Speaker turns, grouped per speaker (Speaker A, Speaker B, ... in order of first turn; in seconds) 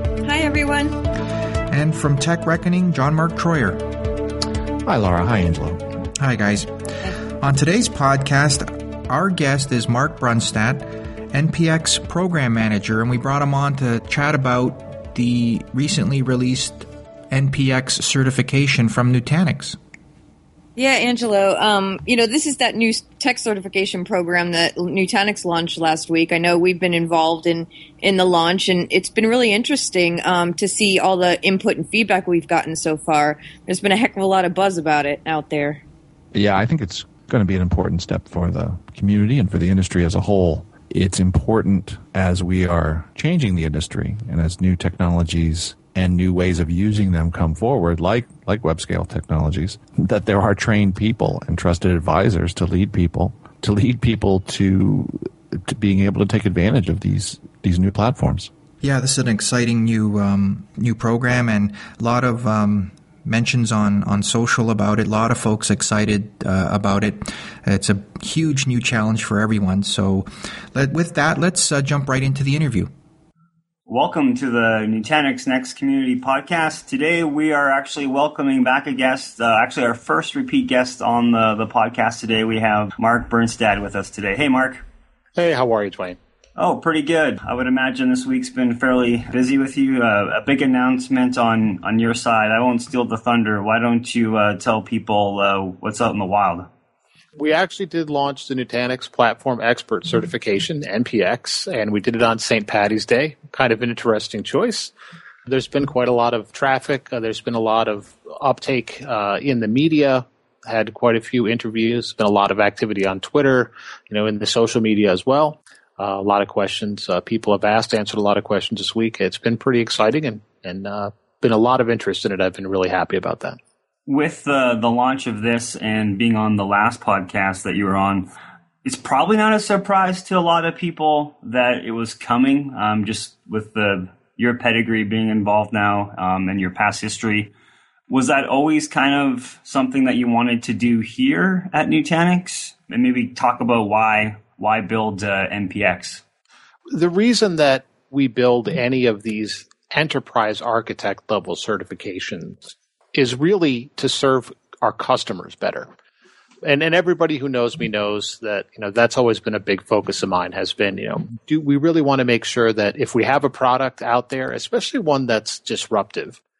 Speaker A: 0.2-1.0, 20.8-35.8
Speaker B: 1.7-3.9, 6.2-6.7, 7.3-19.8, 58.8-72.9
Speaker C: 4.8-5.8, 36.3-58.5
Speaker D: 73.9-84.8, 86.5-96.7, 124.1-128.3, 128.8-137.5, 138.1-146.2
Speaker E: 85.3-86.2, 97.4-104.9, 105.5-123.6, 146.9-155.9, 156.6-166.4